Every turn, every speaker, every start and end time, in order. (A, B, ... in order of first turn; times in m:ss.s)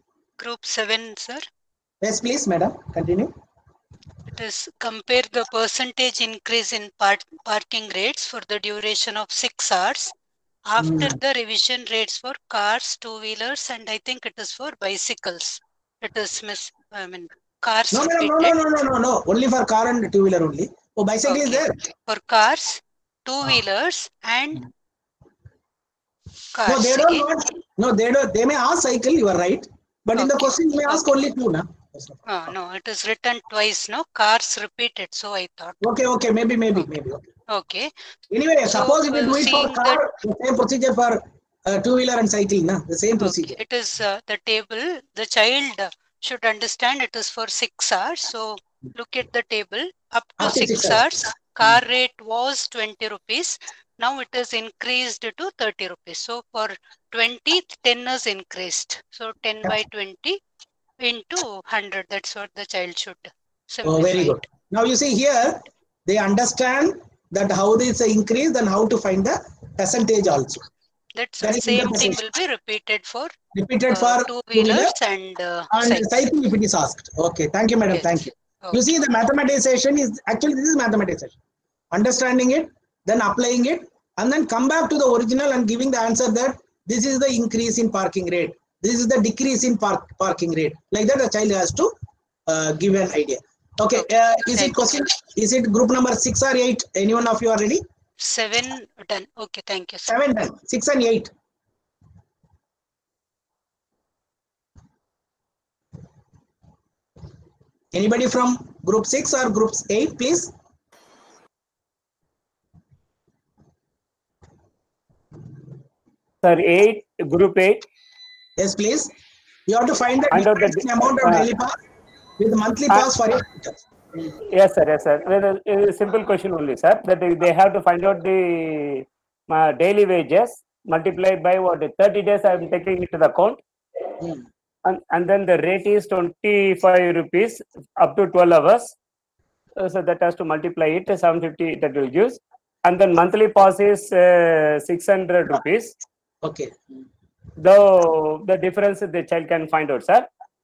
0:00.4-0:01.5 A
0:02.0-0:03.3 B
0:04.4-0:10.1 A
0:10.7-0:18.6 A
0:10.8-0:11.2 B
0:17.9-0:21.8 B
0:21.2-0:24.6 A
0:26.5-0:27.2 A
0:26.6-0:32.2 B
0:30.1-0:31.1 A
0:32.2-0:35.8 A
0:35.8-0:37.3 B
0:37.5-0:37.9 A
0:38.3-0:43.6 B
0:38.7-0:40.0 A
0:43.2-1:00.4 A
0:50.4-0:51.0 B
1:01.0-1:04.4 A
1:03.8-1:10.6 B
1:11.1-1:13.3 A
1:11.4-1:12.2 B
1:13.5-1:14.9 B
1:13.9-1:16.2 A
1:15.7-1:21.4 B
1:17.8-1:18.9 A
1:21.9-1:31.9 B
1:32.5-1:37.8 B
1:34.0-1:35.1 A
1:38.2-1:40.2 A
1:40.0-1:41.3 B
1:47.9-1:50.5 B
1:56.4-1:57.8 C
1:58.6-1:59.1 B
1:59.7-2:01.7 B
2:00.3-2:01.5 C
2:02.4-2:03.8 B
2:04.5-2:13.6 C
2:14.8-2:18.9 C
2:19.8-2:25.9 C
2:26.4-2:26.8 B
2:27.6-2:30.3 C